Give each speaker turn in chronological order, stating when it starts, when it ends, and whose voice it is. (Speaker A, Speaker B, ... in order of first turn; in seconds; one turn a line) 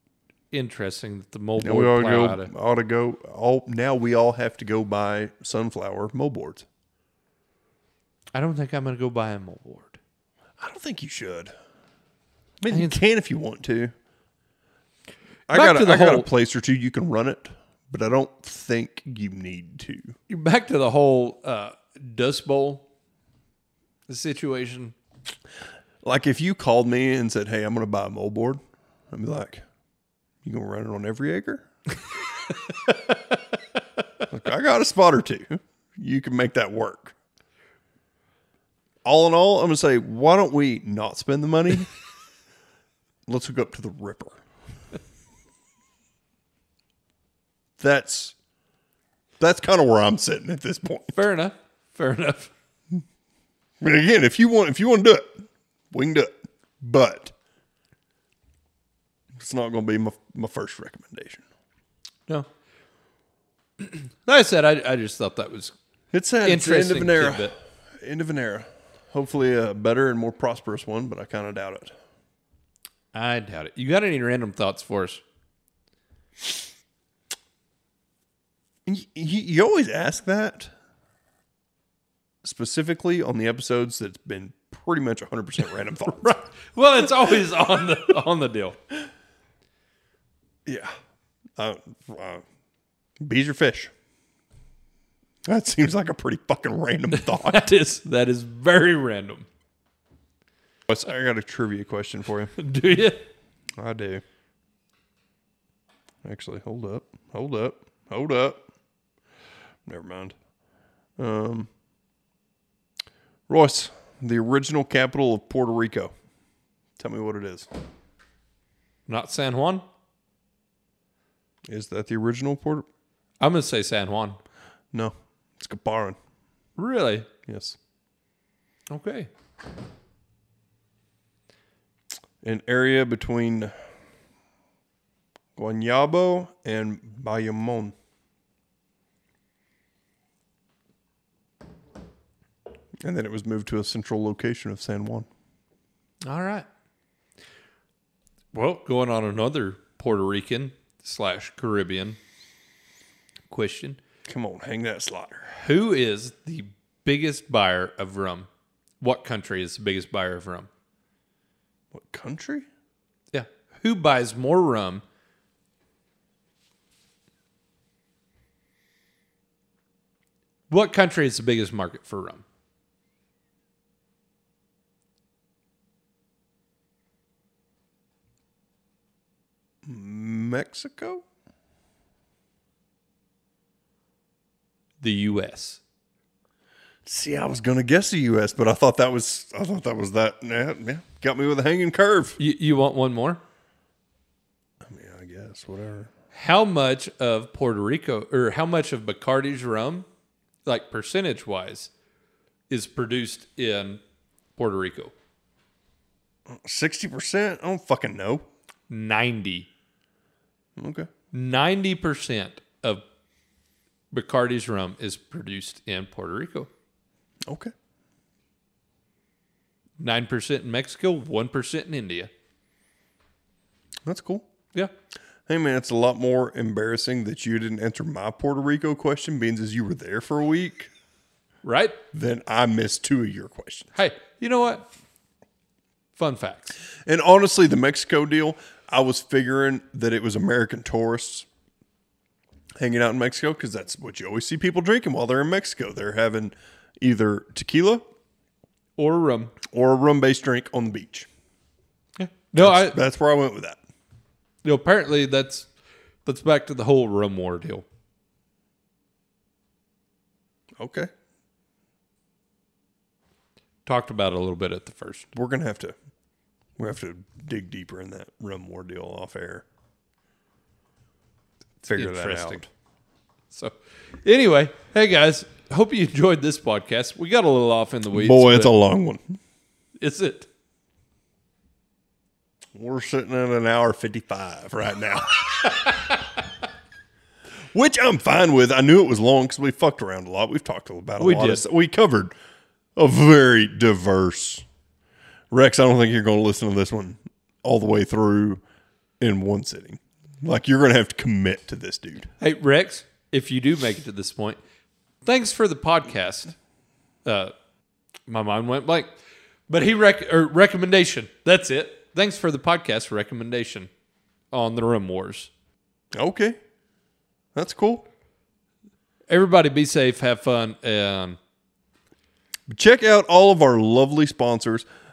Speaker A: 0.5-2.5
Speaker B: 1.6-6.7
Speaker A: 8.3-10.0
Speaker B: 10.6-11.5
Speaker B: 12.6-13.9
Speaker A: 12.7-13.0
Speaker A: 15.5-16.3
Speaker B: 15.5-20.1
Speaker A: 20.3-22.8
Speaker A: 24.1-24.9
Speaker B: 26.0-29.6
Speaker B: 30.4-31.7
Speaker A: 32.9-33.4
Speaker B: 34.3-37.1
Speaker B: 39.0-41.9
Speaker B: 43.2-44.4
Speaker B: 47.8-48.3
Speaker B: 49.4-51.3
Speaker A: 51.1-52.5
Speaker B: 53.8-57.3
Speaker B: 59.4-61.4
Speaker A: 63.8-65.7
Speaker B: 66.1-71.9
Speaker A: 66.4-67.5
Speaker A: 73.1-75.2
Speaker B: 78.8-80.7
Speaker B: 82.4-86.4
Speaker A: 86.2-88.8
Speaker B: 90.6-90.9
Speaker B: 91.6-92.4
Speaker B: 93.2-93.9
Speaker B: 95.4-97.6
Speaker A: 97.1-99.5
Speaker B: 100.9-102.5
Speaker A: 102.5-103.2
Speaker B: 103.8-104.2
Speaker B: 106.2-108.7
Speaker B: 109.8-110.3
Speaker B: 111.2-111.7
Speaker B: 113.5-116.1
Speaker B: 117.0-117.7
Speaker A: 119.1-119.8
Speaker B: 121.7-122.8
Speaker A: 123.4-124.4
Speaker B: 124.9-126.2
Speaker A: 126.8-127.3
Speaker B: 127.5-127.8
Speaker A: 128.9-129.3
Speaker B: 132.4-133.7
Speaker B: 135.6-137.9
Speaker B: 143.0-145.3
Speaker A: 146.2-146.7
Speaker A: 148.5-152.2
Speaker A: 153.5-154.0
Speaker B: 154.3-155.5
Speaker A: 155.5-158.5
Speaker A: 159.0-160.7
Speaker B: 161.9-162.7
Speaker A: 163.3-165.0
Speaker A: 170.7-172.4
Speaker B: 179.8-181.2
Speaker A: 185.0-185.8
Speaker B: 187.0-192.4
Speaker A: 192.4-193.4
Speaker B: 194.8-196.1
Speaker A: 196.3-200.1
Speaker A: 200.7-201.9
Speaker A: 202.7-204.0
Speaker A: 204.6-205.1
Speaker B: 206.5-208.4
Speaker A: 208.9-209.7
Speaker B: 210.8-211.1
Speaker A: 211.3-213.0
Speaker A: 214.1-216.7
Speaker B: 217.4-217.7
Speaker A: 220.0-222.3
Speaker B: 224.0-224.5
Speaker B: 225.5-230.9
Speaker A: 231.6-232.0
Speaker B: 232.1-233.9
Speaker A: 233.9-234.8
Speaker A: 236.2-236.8
Speaker B: 237.1-241.5
Speaker B: 242.8-248.0
Speaker A: 249.0-249.5
Speaker B: 249.7-251.3
Speaker A: 252.2-253.0
Speaker B: 252.5-253.8
Speaker A: 254.6-255.7
Speaker A: 256.2-257.9
Speaker B: 260.8-261.1
Speaker A: 263.9-265.3
Speaker B: 265.3-265.9
Speaker B: 266.8-269.6
Speaker B: 271.8-272.7
Speaker A: 271.9-272.6
Speaker A: 273.5-278.7
Speaker B: 278.1-279.4
Speaker A: 280.0-280.5
Speaker B: 282.7-286.0
Speaker B: 287.7-292.3
Speaker A: 291.2-291.6
Speaker B: 292.9-294.6
Speaker B: 295.5-298.6
Speaker B: 299.2-302.3
Speaker A: 302.4-304.6
Speaker A: 305.2-306.5
Speaker A: 307.2-307.5
Speaker A: 308.3-309.1
Speaker A: 309.7-313.9
Speaker A: 314.5-315.5
Speaker B: 316.1-316.6
Speaker B: 317.5-318.1
Speaker A: 319.3-321.4
Speaker B: 322.7-324.9